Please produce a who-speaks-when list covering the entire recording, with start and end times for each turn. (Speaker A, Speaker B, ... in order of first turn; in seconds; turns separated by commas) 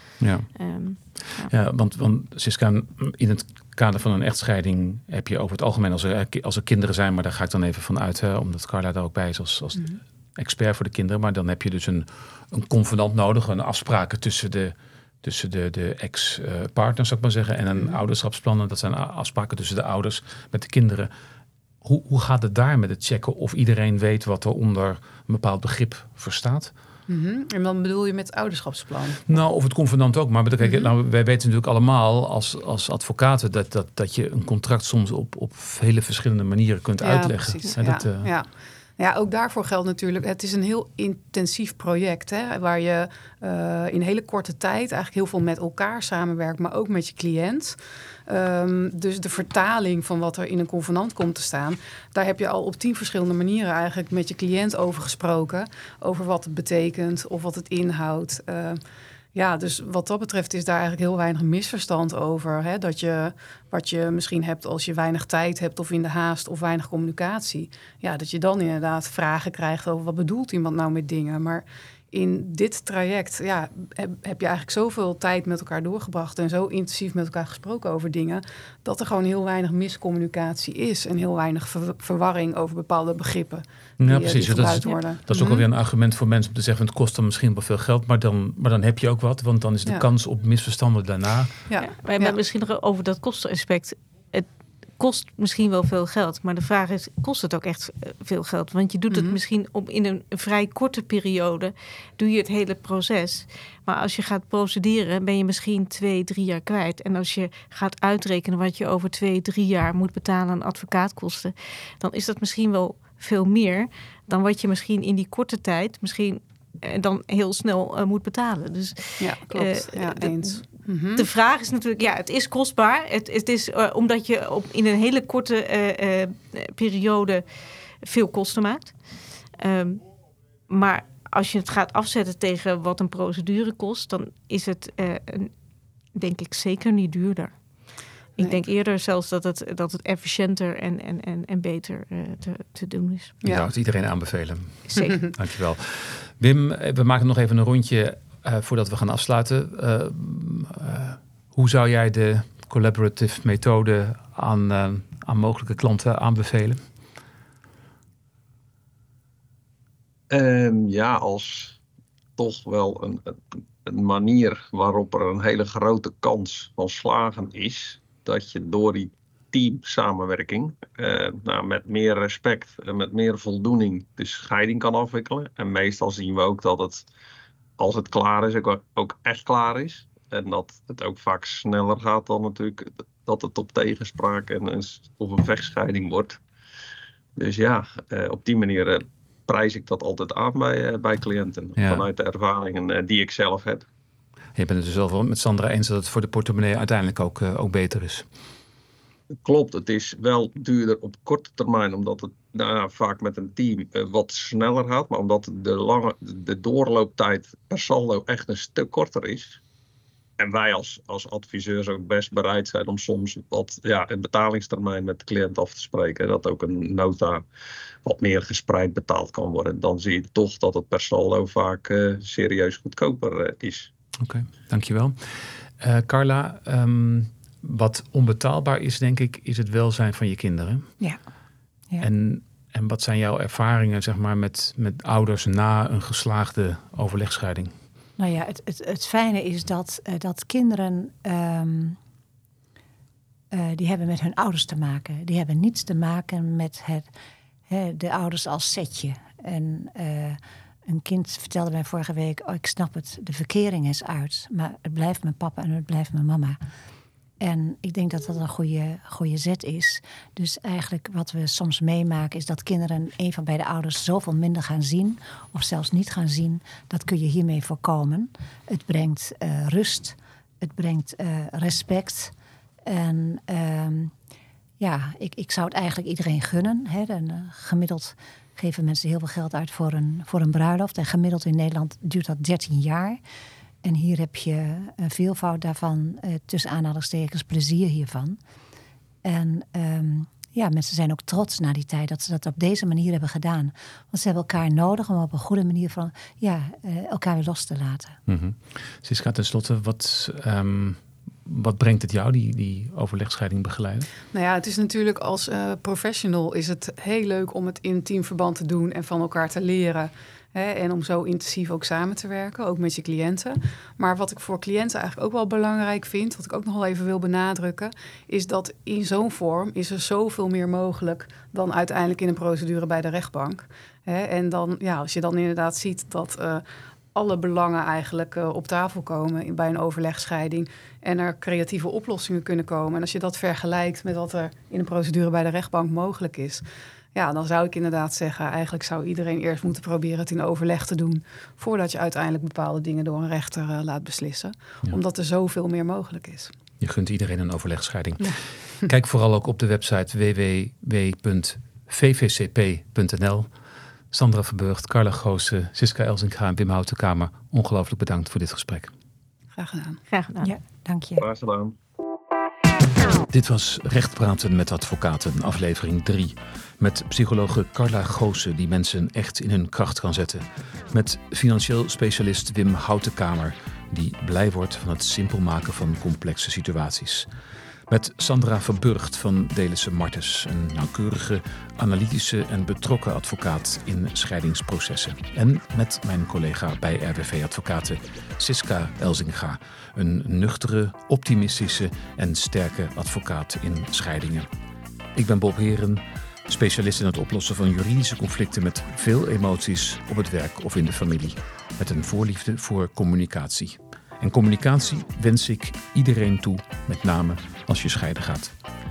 Speaker A: 0.2-0.5, Speaker B: 0.6-1.5, Speaker A: 1.5-21.1, Speaker A: 21.8-26.7, Speaker C: 27.1-29.4, Speaker A: 29.3-38.3, Speaker C: 30.6-30.9, Speaker C: 37.0-58.8, Speaker C: 59.4-85.7, Speaker A: 84.0-91.6, Speaker C: 91.7-92.4, Speaker B: 91.8-94.5, Speaker B: 95.0-120.6, Speaker C: 99.1-99.4, Speaker C: 119.2-121.3, Speaker B: 121.2-127.4, Speaker B: 128.0-128.9, Speaker B: 129.6-130.1, Speaker B: 130.7-135.5, Speaker B: 136.1-137.5, Speaker B: 138.4-143.3, Speaker C: 143.4-143.7, Speaker A: 143.4-156.8, Speaker B: 144.9-145.2, Speaker D: 160.3-161.8, Speaker D: 162.4-177.1, Speaker D: 177.8-186.4, Speaker D: 187.4-193.9, Speaker A: 191.8-192.1, Speaker A: 194.6-198.3, Speaker D: 199.4-209.6, Speaker D: 210.4-217.4, Speaker D: 218.1-223.9, Speaker A: 224.2-230.9, Speaker A: 232.0-237.7, Speaker E: 238.2-242.0, Speaker E: 243.5-247.1, Speaker E: 247.7-256.6, Speaker E: 257.4-272.3, Speaker E: 272.9-274.1, Speaker E: 274.8-283.2, Speaker E: 283.8-288.4, Speaker E: 289.2-298.2, Speaker A: 298.3-304.1, Speaker C: 304.3-326.6, Speaker C: 327.1-336.6, Speaker C: 337.1-346.5, Speaker A: 346.8-353.5, Speaker A: 354.1-358.9, Speaker C: 359.5-360.0, Speaker B: 360.1-360.5, Speaker E: 360.4-361.2, Speaker D: 361.2-361.8, Speaker A: 363.3-377.3, Speaker A: 377.9-394.5, Speaker A: 395.1-408.5